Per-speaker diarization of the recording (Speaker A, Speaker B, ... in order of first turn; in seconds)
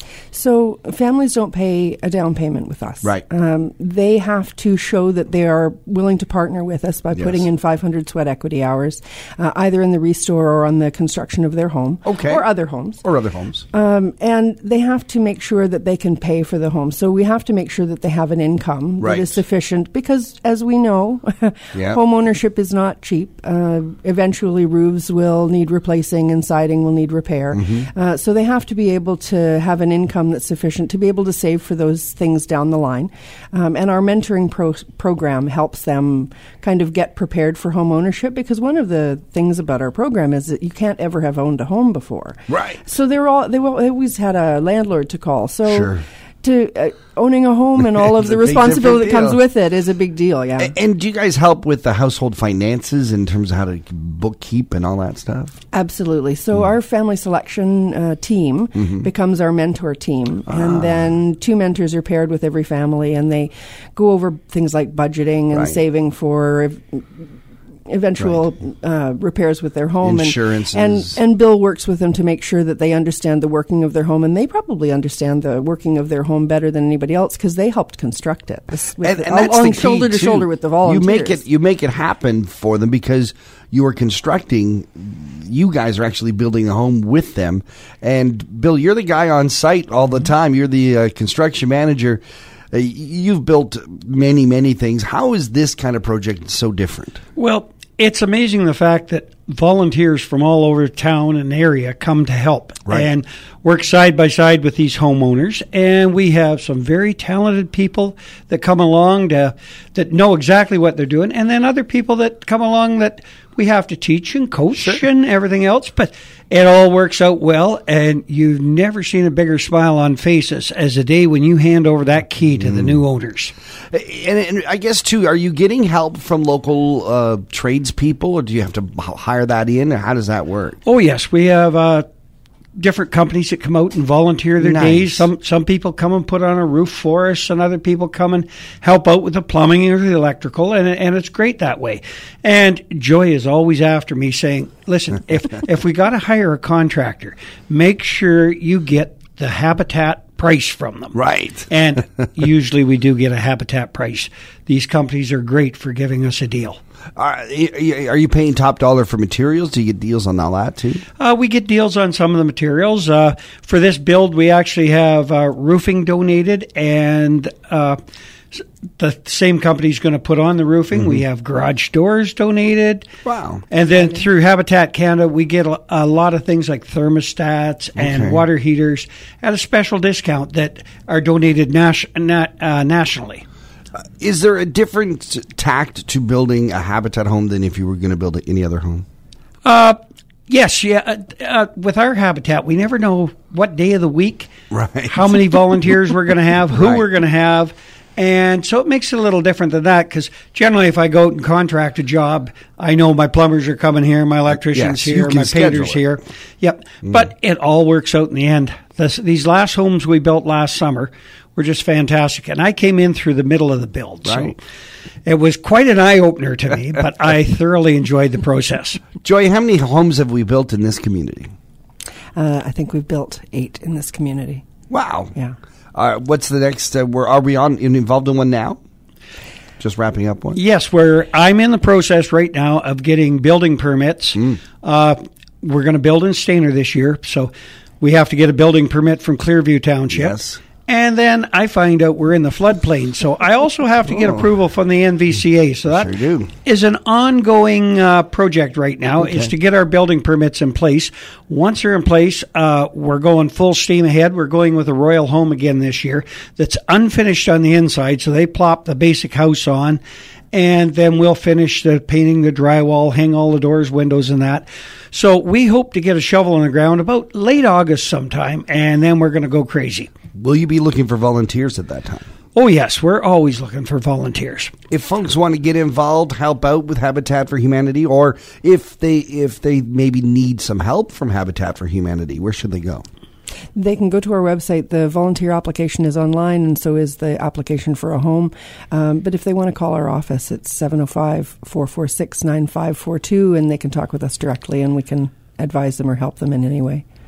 Speaker A: 0.3-13.0, 13.7-50.7, 55.7-67.2, 67.9-81.4, 222.3-224.6, 283.7-297.0
Speaker B: 7.1-7.4, 12.0-12.4, 13.0-13.7, 19.0-19.4, 21.7-22.0, 27.5-27.9, 42.5-42.8, 45.7-46.0, 48.2-49.4, 50.6-55.5, 58.8-59.0, 60.5-61.0, 65.5-65.8, 70.0-71.2, 79.0-92.2, 92.7-97.2, 122.6-122.9, 123.9-130.8, 134.6-135.3, 151.1-151.7, 157.2-161.0, 173.2-173.6, 177.9-178.4, 184.2-189.0, 194.7-195.3, 204.6-206.0, 214.2-214.5, 219.2-221.5, 224.9-225.3, 225.9-228.8, 229.8-230.6, 240.1-240.6, 245.9-246.5, 249.2-249.5, 270.4-272.2, 274.9-283.0
Speaker C: 97.4-123.5, 130.8-132.1, 132.8-151.1, 151.7-156.8, 161.2-168.0, 168.5-173.1, 173.7-183.4, 189.6-194.5, 195.1-214.6, 215.2-219.0, 230.5-246.1, 246.6-260.0, 260.5-270.1, 272.6-274.7